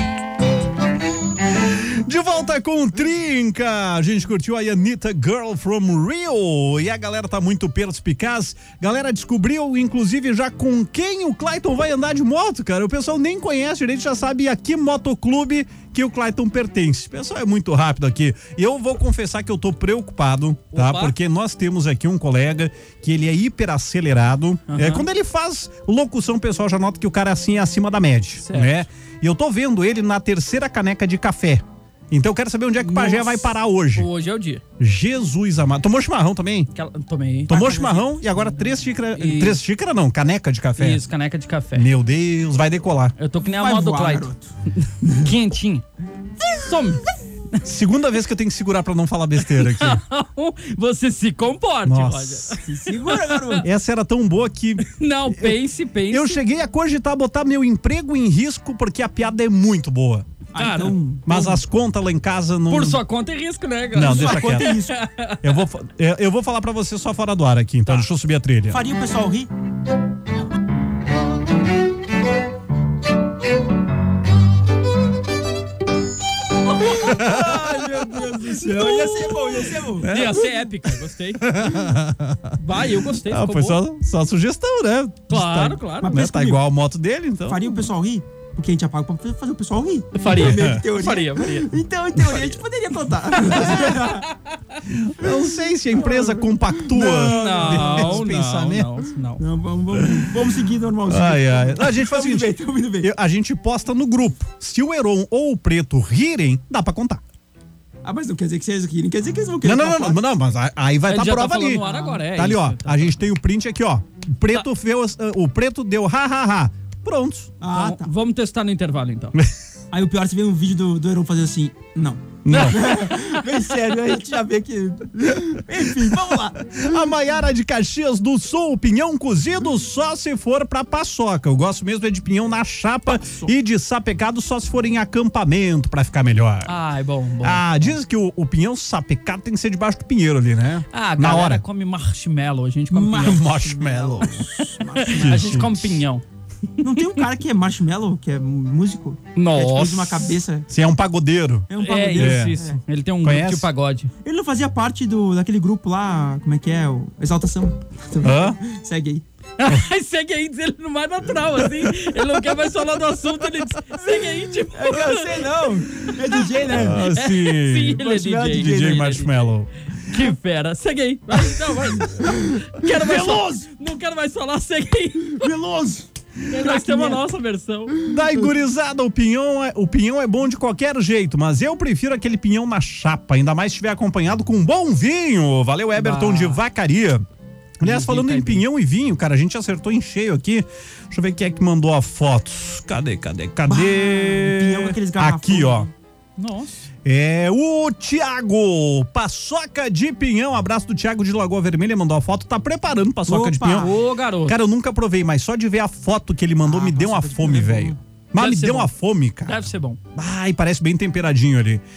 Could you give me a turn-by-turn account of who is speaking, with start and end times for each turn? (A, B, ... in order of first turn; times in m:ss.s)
0:01.6-0:34.1 A
0:20.7-0:21.1 B
0:24.7-0:25.1 B
0:28.4-0:28.8 B
0:32.9-0:33.3 C
0:33.9-0:34.6 B
0:34.8-0:36.7 A
0:36.7-0:37.6 B
0:37.5-0:41.0 A
0:37.5-0:38.6 C
0:39.1-0:39.6 B
0:40.8-0:41.9 B
0:41.7-0:43.1 A
0:43.2-0:44.3 B
0:43.4-0:44.5 C
0:44.8-0:45.8 B
0:45.0-0:45.3 C
0:46.5-0:47.0 B
0:47.6-0:50.0 A
0:49.5-0:53.6 B
0:51.8-0:52.6 A
0:52.6-0:53.6 C
0:53.6-0:55.6 A
0:54.8-0:56.4 B
0:56.1-1:00.3 A
1:00.5-1:01.0 B
1:00.5-1:01.6 C
1:01.2-1:03.0 A
1:02.7-1:05.6 B
1:03.9-1:04.7 A
1:04.0-1:05.0 C
1:05.4-1:08.8 A
1:08.7-1:09.5 C
1:16.8-1:20.1 C
1:17.0-1:17.7 A
1:17.2-1:19.4 B
1:20.0-1:21.5 B
1:20.0-1:20.5 A
1:21.4-1:22.5 A
1:22.6-1:23.8 B
1:23.3-1:27.8 A
1:25.3-1:26.1 B
1:26.0-1:26.6 C
1:27.5-1:34.3 C
1:30.1-1:31.7 B
1:30.4-1:30.8 A
1:33.5-1:33.9 B
1:34.9-1:38.9 A
1:35.9-1:38.2 C
1:37.1-1:39.4 B
1:39.4-1:43.1 C
1:41.1-1:47.2 A
1:48.0-1:50.2 C
1:49.6-1:57.5 A
1:51.1-1:53.2 B
1:51.8-1:52.2 C
1:57.6-1:58.1 C
1:57.7-1:59.4 B
1:59.9-2:06.8 C
2:02.4-2:02.8 A
2:02.5-2:03.4 B
2:06.7-2:16.8 A
2:13.2-2:13.5 C
2:16.6-2:18.0 B
2:17.4-2:21.6 A
2:20.9-2:23.4 B
2:22.9-2:25.7 C
2:23.2-2:24.3 A
2:24.6-2:26.2 B
2:25.1-2:26.0 A
2:26.8-2:30.7 C
2:26.9-2:27.2 B
2:29.4-2:30.4 B
2:30.7-2:32.6 A
2:31.7-2:32.8 C
2:31.8-2:34.1 B
2:33.2-2:33.7 A
2:34.2-2:39.2 C
2:38.2-2:38.6 A
2:39.6-2:45.4 B
2:44.7-2:47.1 C
2:46.7-2:49.7 A
2:47.1-2:49.5 B
2:47.9-2:49.1 C
2:50.1-2:55.5 B
2:52.1-2:53.6 C
2:55.4-2:57.2 C
2:56.5-2:58.0 B
2:58.1-3:07.2 A
3:05.9-3:06.6 B
3:07.8-3:15.9 A
3:07.8-3:08.6 B
3:13.7-3:15.9 C
3:16.4-3:16.7 B
3:17.0-3:31.8 A
3:23.2-3:23.9 C
3:23.8-3:24.6 B
3:26.6-3:28.0 C
3:28.4-3:28.9 B
3:29.4-3:30.0 B